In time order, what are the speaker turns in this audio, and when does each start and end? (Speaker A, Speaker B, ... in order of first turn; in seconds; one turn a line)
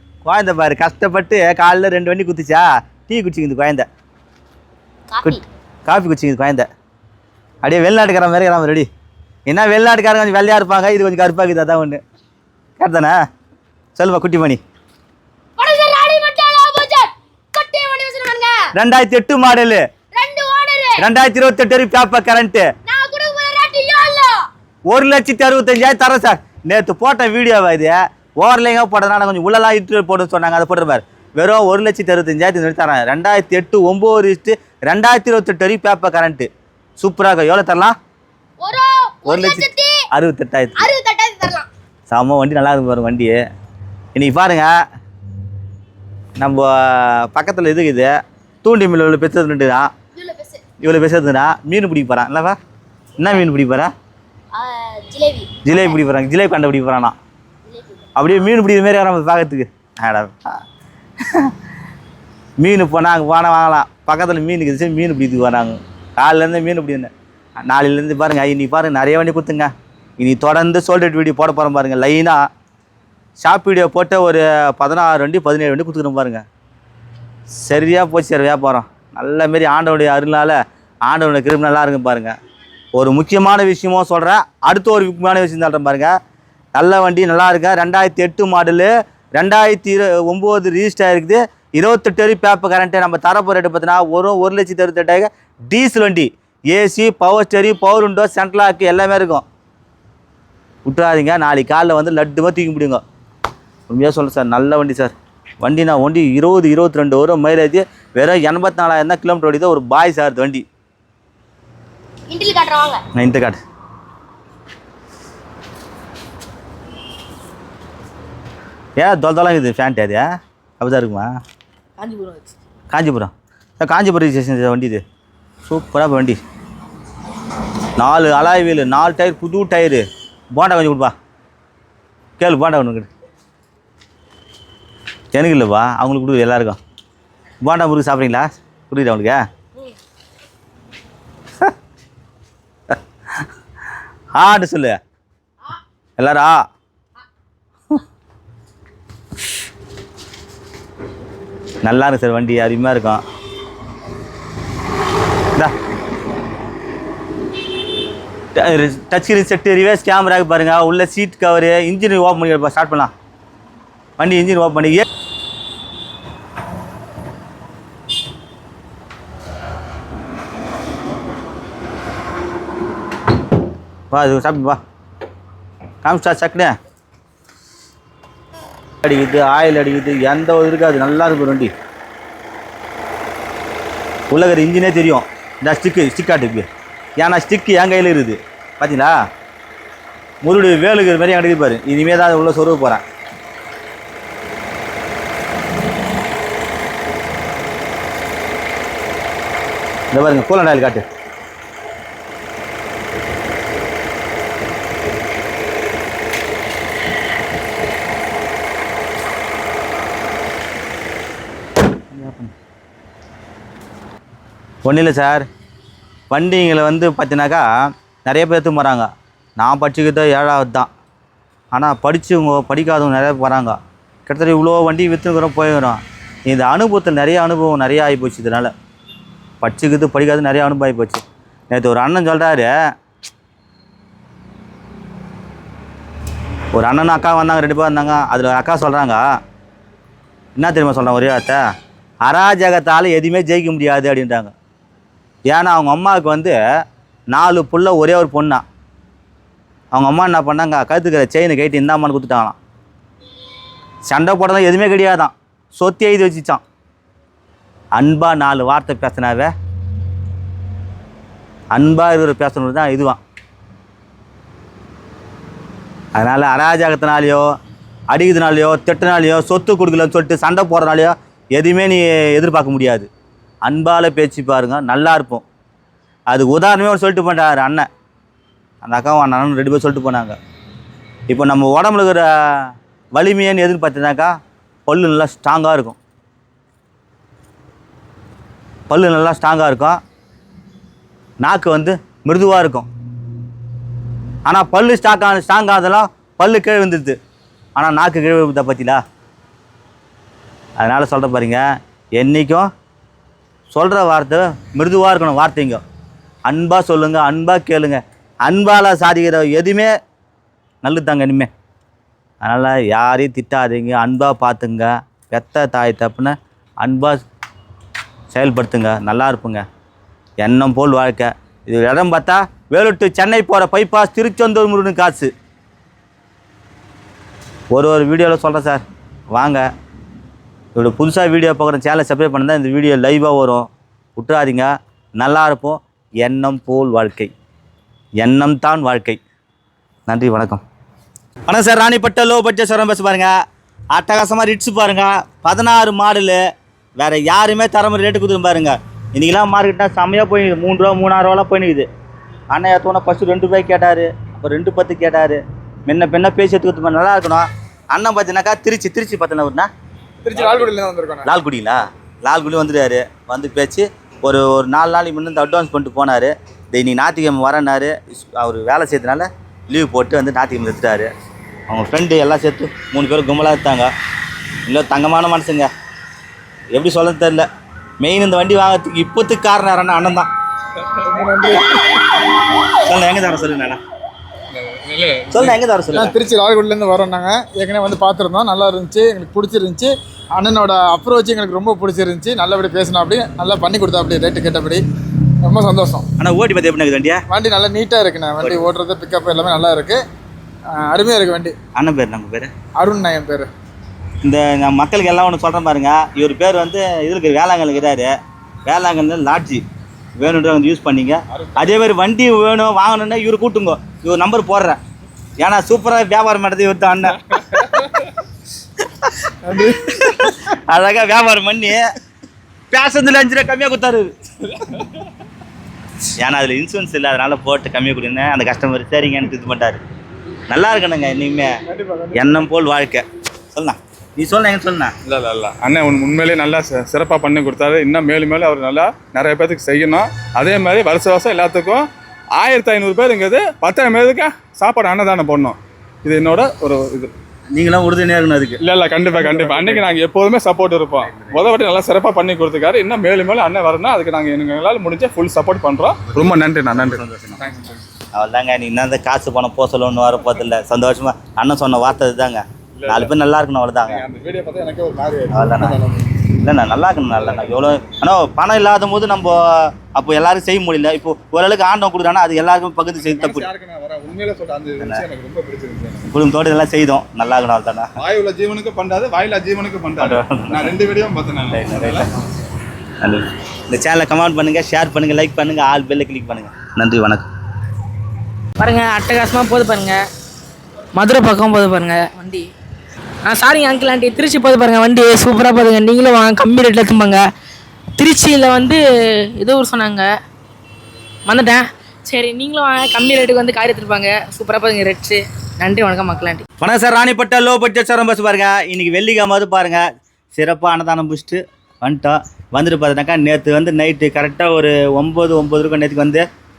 Speaker A: 0.2-3.9
Speaker B: 5.1-5.4
Speaker A: 5.2-6.7
Speaker A: 7.6-8.9
Speaker A: 9.5-12.0
Speaker A: 12.8-13.2
Speaker A: 14.0-14.6
Speaker B: 15.6-18.7
Speaker A: 18.8-19.8
Speaker B: 20.1-21.1
Speaker A: 21.0-22.7
Speaker B: 22.9-24.4
Speaker A: 24.9-36.5
Speaker A: 37.0-37.9
Speaker B: 38.6-40.0
Speaker A: 39.2-40.9
Speaker B: 40.8-41.7
Speaker A: 42.1-43.4
Speaker A: 44.1-44.7
Speaker A: 46.4-48.1
Speaker A: 48.6-49.9
Speaker B: 50.1-50.6
Speaker A: 50.8-52.6
Speaker A: 53.2-53.9
Speaker B: 54.5-56.0
Speaker A: 55.6-57.1
Speaker B: 57.7-58.1
Speaker A: 58.2-60.4
Speaker A: 62.6-67.1
Speaker A: 67.7-72.4
Speaker A: 73.4-76.4
Speaker A: 77.6-82.3
Speaker A: 83.0-86.1
Speaker A: 86.8-99.4
Speaker A: 100.9-103.0
Speaker A: 103.9-110.6
Speaker B: 112.3-113.0
Speaker A: 113.2-113.6
Speaker A: 119.0-120.2
Speaker A: 120.8-121.3
Speaker C: 122.0-122.5
Speaker A: 122.9-125.0
Speaker A: 125.7-126.4
Speaker A: 128.0-130.0
Speaker A: 130.6-131.1
Speaker A: 132.4-133.1
Speaker A: 135.3-136.8
Speaker A: 137.6-139.4
Speaker A: 144.4-145.0
Speaker A: 146.2-146.6
Speaker A: 151.8-153.2
Speaker A: 158.6-163.1
Speaker A: 164.2-165.1
Speaker A: 174.1-174.8
Speaker A: 176.0-176.7
Speaker A: 179.0-181.7
Speaker A: 184.3-189.1
Speaker A: 190.4-193.0
Speaker A: 200.1-201.0
Speaker A: 212.1-212.5
Speaker A: 214.8-215.4
Speaker A: 216.3-217.7
Speaker A: 218.2-220.9
Speaker A: 221.7-228.7
Speaker A: 229.6-232.7
Speaker A: 236.8-239.2
Speaker A: 240.6-241.6
Speaker A: 242.3-244.5
Speaker A: 245.5-246.6
Speaker A: 247.3-248.6
Speaker A: 249.9-252.6
Speaker A: 254.1-256.6
Speaker A: 258.0-259.5
Speaker A: 261.7-263.2
Speaker A: 266.2-267.4
Speaker A: 268.1-273.1
Speaker A: 273.6-275.4
Speaker A: 276.3-277.9
Speaker A: 278.8-280.4
Speaker A: 281.3-284.3
Speaker A: 284.9-286.0
Speaker A: 288.9-290.0
Speaker A: 291.4-292.9
Speaker A: 294.5-297.2
Speaker A: 297.8-299.0
Speaker A: 300.8-301.6
Speaker A: 302.2-302.7
Speaker A: 303.7-305.8
Speaker A: 306.5-309.9
Speaker A: 310.8-311.5
Speaker A: 312.4-317.2
Speaker A: 318.3-319.6
Speaker A: 320.4-325.3
Speaker A: 327.7-328.8
Speaker A: 329.3-329.6
Speaker A: 330.8-337.3
Speaker A: 338.2-339.2
Speaker A: 340.1-340.6
Speaker A: 341.5-343.3
Speaker A: 343.9-346.4
Speaker A: 347.0-351.9
Speaker A: 352.5-359.7
Speaker D: 360.2-361.3
Speaker A: 361.2-371.1
Speaker A: 371.7-373.9
Speaker A: 374.7-375.7
Speaker A: 376.8-377.5
Speaker A: 378.0-380.3
Speaker D: 381.1-381.8
Speaker A: 382.8-383.8
Speaker E: 384.5-386.0
Speaker A: 385.3-386.1
Speaker D: 385.9-394.8
Speaker D: 395.4-396.1
Speaker A: 396.2-397.2
Speaker D: 397.3-400.0
Speaker D: 400.8-401.5
Speaker A: 401.8-402.5
Speaker D: 402.8-403.5
Speaker A: 404.2-408.1
Speaker A: 408.7-409.6
Speaker A: 410.2-414.8
Speaker A: 415.4-417.9
Speaker A: 419.0-421.9
Speaker A: 422.7-424.1
Speaker A: 426.2-429.8
Speaker A: 430.5-431.5
Speaker D: 431.7-432.3
Speaker A: 432.1-434.9
Speaker E: 435.1-441.9
Speaker E: 442.4-447.1
Speaker A: 447.5-448.6
Speaker E: 448.6-457.8
Speaker A: 456.7-457.4
Speaker A: 458.1-464.0
Speaker E: 462.8-463.1
Speaker E: 463.9-466.0
Speaker A: 465.3-465.8
Speaker A: 466.4-473.5
Speaker E: 473.0-476.1
Speaker A: 476.1-477.9
Speaker E: 478.0-482.1
Speaker A: 480.0-480.8
Speaker A: 481.5-482.1
Speaker A: 483.0-487.3
Speaker C: 488.6-490.0
Speaker C: 491.0-492.5
Speaker C: 493.3-497.2
Speaker C: 498.0-498.8
Speaker C: 499.4-500.1
Speaker C: 501.3-506.4
Speaker A: 506.6-509.8
Speaker A: 510.3-516.2